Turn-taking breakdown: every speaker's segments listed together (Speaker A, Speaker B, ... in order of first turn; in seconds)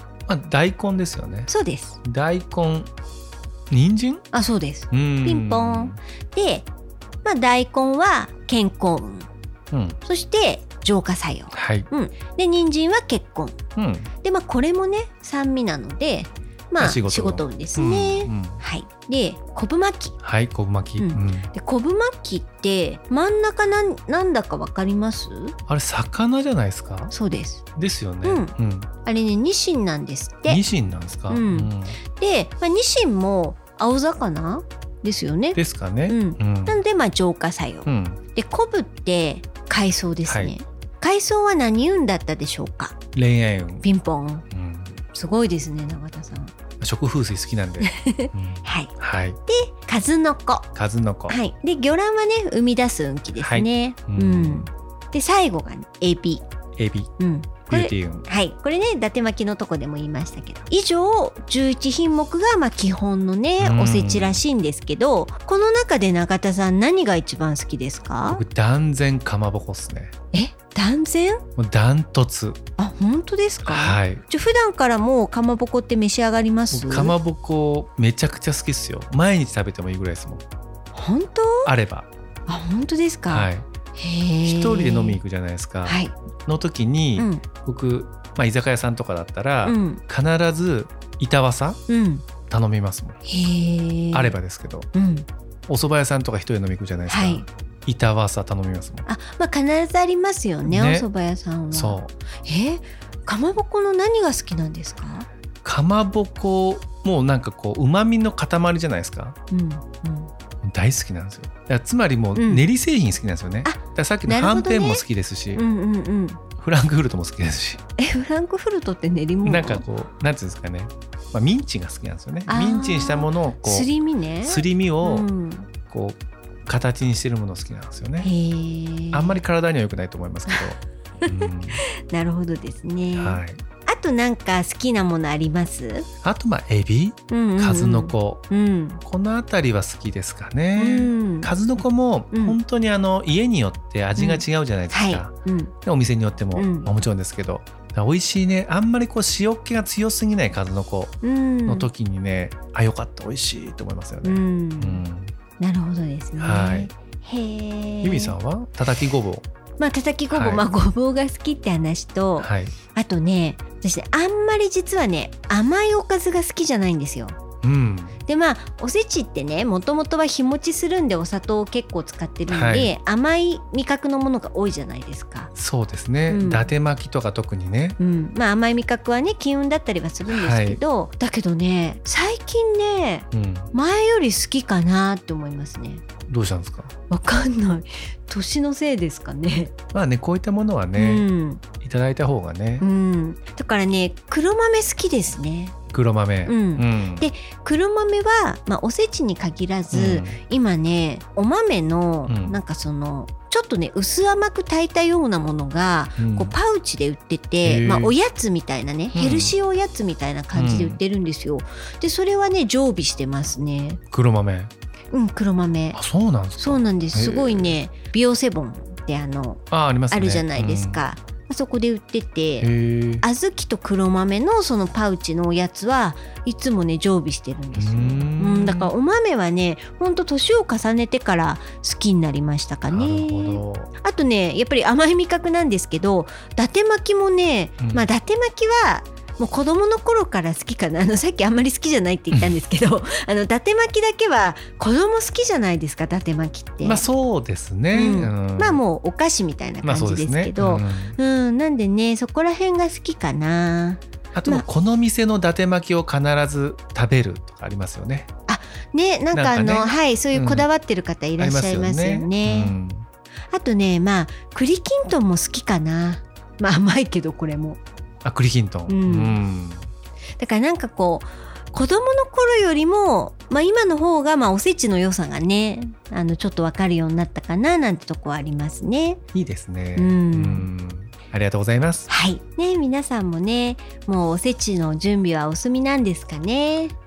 Speaker A: 0.3-1.5, 2.0-2.9, 3.7-4.2, 4.9-6.0, 9.7-10.0, 11.5-11.9, 13.8-14.1, 16.8-18.6, 20.2-21.5, 25.7-27.1, 27.8-28.9, 30.5-32.0, 35.5-36.8, 37.9-38.2, 40.2-40.5, 43.1-43.9, 44.5-45.0, 46.8-49.4, 50.7-51.4, 53.4-54.7, 56.8-57.1, 57.6-58.2, 63.6-64.4, 68.2-70.1, 71.6-72.6, 73.6-74.2, 76.7-80.4, 81.6-82.1, 83.3-83.7, 84.4-91.8, 92.5-93.2, 94.1-94.9, 95.7-99.0, 100.6-101.1, 101.7-102.1, 105.6-109.3, 110.6-115.6, 116.6-117.8, 119.4-123.9, 124.4-125.3, 125.9-128.3, 129.1-131.8, 133.1-133.6, 136.2-138.4, 139.0-145.3, 145.8-155.3, 156.4-156.9, 158.0-159.4, 160.3-160.6, 162.4-162.8, 167.6-168.2, 172.5-172.9, 175.6-178.0, 180.3-180.8, 183.3-183.7, 186.3-186.9, 189.9-191.2, 191.8-192.8, 195.9-197.3, 199.9-200.4, 202.3-202.6, 206.2-206.5, 207.6-208.1, 209.1-209.5, 210.5-211.0, 214.1-214.7, 215.9-217.8, 219.7-221.0, 222.6-223.2, 227.7-228.9, 232.9-233.9, 237.8-238.1, 246.8-248.8, 249.8-251.2, 254.3-258.3, 259.3-260.7, 261.4-263.1, 268.2-269.9, 279.3-282.1
Speaker B: 1.5-2.0, 4.3-6.7, 7.2-9.3, 10.0-13.6, 14.2-20.1, 21.0-25.5, 27.1-27.6, 28.2-30.6, 31.3-42.9, 43.8-44.4, 45.0-46.5, 47.8-48.9, 49.5-50.7, 51.3-56.4, 57.2-68.4, 70.3-71.4, 72.8-77.2, 80.9-81.7, 82.5-85.2, 85.8-86.1, 87.2-87.4, 89.6-90.0, 91.9-92.2, 93.2-94.3, 94.9-95.2, 97.1-97.5, 99.0-105.3, 109.5-110.3, 112.3-112.7, 113.6-116.4, 118.0-119.8, 122.5-125.7, 128.2-129.4, 130.5-136.1, 137.3-139.0, 140.8-141.5, 142.3-142.6, 144.2-145.7, 146.5-146.9, 151.2-151.9, 154.2-155.0, 155.6-158.3, 159.8-167.4, 168.3-175.5, 176.3-176.7, 178.0-186.0, 187.1-189.7, 190.9-191.6, 192.8-195.7, 196.4-214.0, 215.1-216.0, 216.6-222.7, 223.2-247.1, 247.9-254.6, 258.5-262.7, 263.5-267.8, 268.9-269.4, 270.4-279.2, 279.9-280.7, 282.1-286.9